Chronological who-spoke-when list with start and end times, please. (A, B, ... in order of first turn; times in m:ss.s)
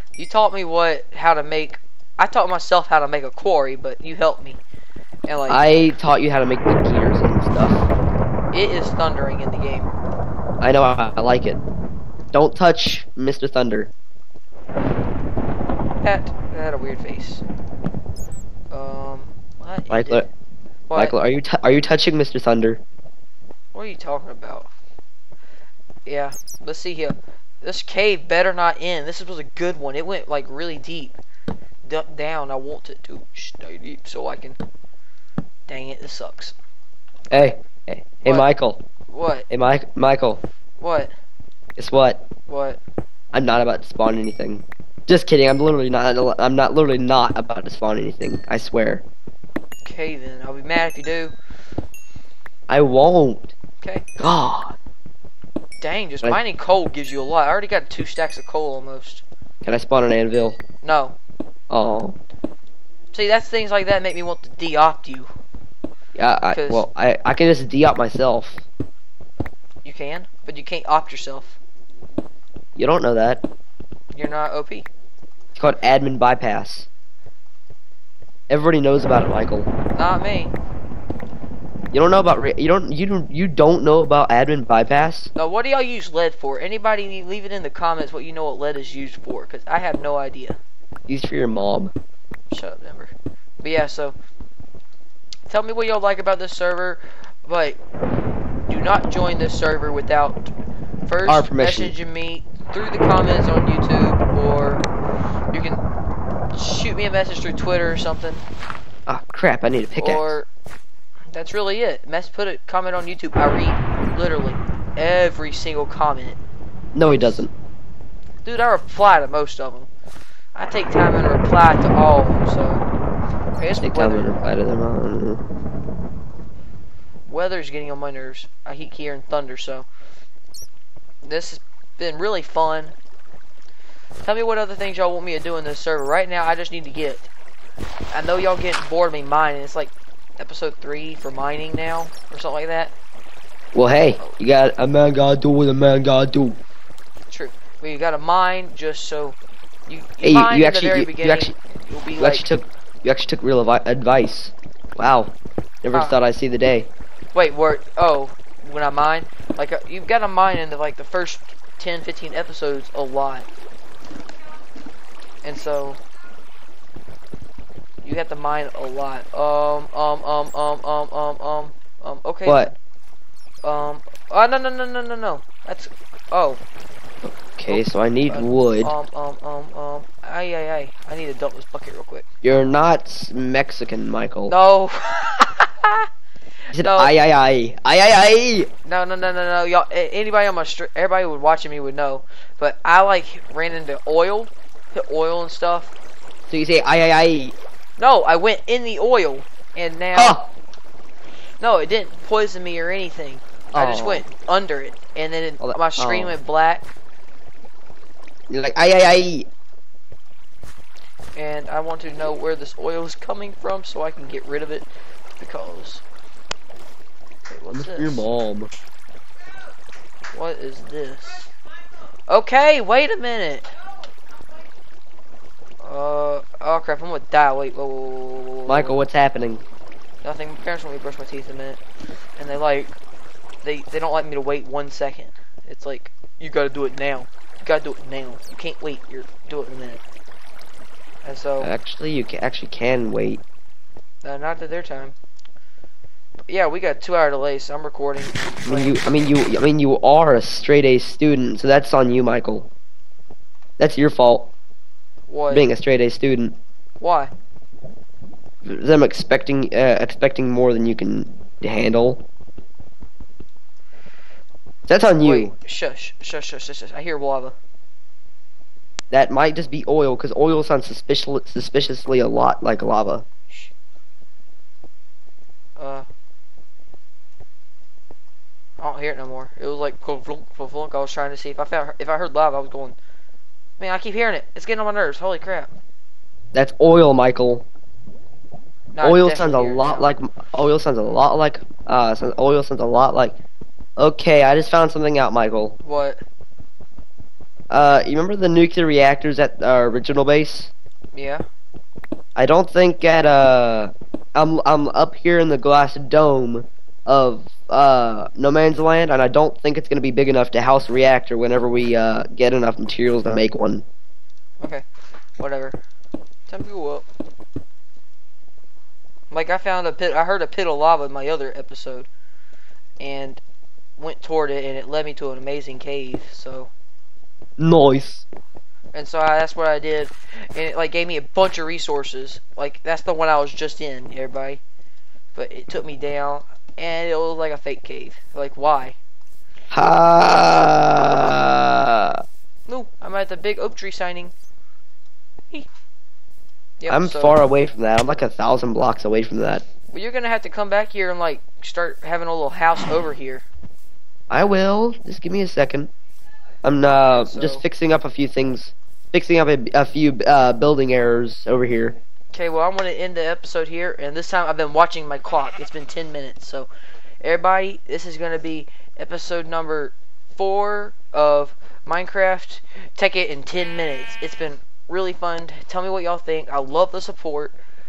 0:00.2-0:04.6 A
0:05.2-0:05.7 A
0:05.5-0:07.8 B
0:08.5-0:09.9 A
0:10.6-0:11.6 B
0:12.3-0:13.9 B
0:16.0-0:17.4 A
0:18.7-0:20.2 A
0:19.9-0:20.3 B
0:20.9-0:21.1 A
0:20.9-0:22.8 B
0:23.7-0:24.7 A
0:26.0-0:31.2 A
0:31.8-0:34.6 A
0:35.7-0:36.6 A
0:37.3-0:38.8 B
0:39.1-0:39.5 A
0:39.5-0:40.4 B
0:40.8-0:41.1 A
0:41.8-0:42.2 B
0:42.5-0:42.8 A
0:43.3-0:49.0 B
0:49.8-0:51.3 A
0:52.7-0:53.5 B
0:53.8-0:54.0 A
0:54.2-0:54.8 B
0:55.8-0:59.2 A
0:59.6-1:00.6 B
1:00.8-1:01.2 A
1:01.7-1:02.2 B
1:03.1-1:05.3 A
1:06.1-1:08.6 B
1:06.5-1:06.8 A
1:09.8-1:11.6 A
1:12.8-1:13.4 B
1:14.1-1:14.9 A
1:15.6-1:16.9 B
1:18.5-1:19.7 B
1:19.9-1:20.5 A
1:21.9-1:25.3 B
1:25.4-1:30.6 A
1:31.1-1:31.9 B
1:32.5-1:34.1 A
1:35.5-1:37.8 A
1:38.7-1:40.5 A
1:41.0-1:44.8 A
1:41.2-1:41.9 B
1:45.5-1:45.8 A
1:46.5-1:48.4 A
1:49.1-1:50.4 B
1:50.0-1:50.5 A
1:51.3-1:56.4 A
1:56.9-1:57.5 B
1:57.0-1:57.4 A
1:58.4-1:59.9 A
2:00.5-2:02.8 A
2:03.6-2:04.4 A
2:03.8-2:05.4 B
2:07.2-2:09.9 A
2:11.2-2:12.9 A
2:14.2-2:17.3 A
2:18.1-2:22.9 A
2:23.7-2:26.6 B
2:27.3-2:32.4 A
2:30.2-2:31.5 B
2:32.2-2:36.9 B
2:35.9-2:36.2 A
2:37.3-2:43.5 A
2:45.4-2:46.0 A
2:48.0-2:52.7 A
2:52.5-2:52.7 B
2:53.6-2:56.6 A
2:57.2-2:58.9 B
2:57.7-3:02.2 A
3:02.4-3:04.5 B
3:04.5-3:06.0 A
3:06.7-3:07.1 A
3:06.7-3:08.7 B
3:08.8-3:15.9 A
3:16.5-3:17.5 B
3:18.0-3:20.4 A
3:20.1-3:20.5 B
3:21.6-3:26.9 A
3:23.7-3:24.2 B
3:25.6-3:26.4 B
3:28.5-3:29.5 B
3:31.3-3:36.0 A
3:37.5-3:38.2 A
3:37.7-3:38.7 B
3:40.3-3:41.5 A
3:42.3-3:43.7 A
3:45.8-3:49.0 A
3:48.7-3:49.6 B
3:50.2-3:51.8 A
3:52.4-3:52.9 A
3:53.6-4:00.0 A
4:01.2-4:01.7 A
4:01.6-4:03.4 B
4:04.2-4:05.2 A
4:06.5-4:09.0 A
4:08.6-4:12.7 B
4:13.8-4:14.5 B
4:15.3-4:15.7 A
4:15.5-4:16.6 B
4:17.0-4:17.3 A
4:18.6-4:22.2 B
4:24.9-4:25.5 B
4:25.2-4:27.6 A
4:29.1-4:33.2 B
4:35.8-4:36.0 A
4:38.8-4:43.0 A
4:43.8-4:45.7 A
4:46.5-4:47.6 B
4:48.9-4:50.1 A
4:49.0-4:53.4 B
4:54.0-4:55.8 B
4:55.8-4:56.2 A
4:57.7-5:00.7 B
5:01.1-5:01.4 A
5:02.4-5:13.8 B
5:15.4-5:15.8 A
5:16.5-5:17.0 A
5:19.3-5:22.1 A
5:23.0-5:23.4 A
5:24.0-5:26.7 A
5:27.6-5:28.2 B
5:28.9-5:34.6 A
5:35.4-5:39.0 A
5:39.7-5:42.2 B
5:42.7-5:44.3 A
5:46.8-5:47.4 A
5:46.9-5:49.6 B
5:49.9-5:53.4 A
5:54.3-5:55.9 B
5:56.6-6:02.0 B
5:56.9-5:57.6 A
6:02.3-6:06.7 A
6:07.2-6:17.6 A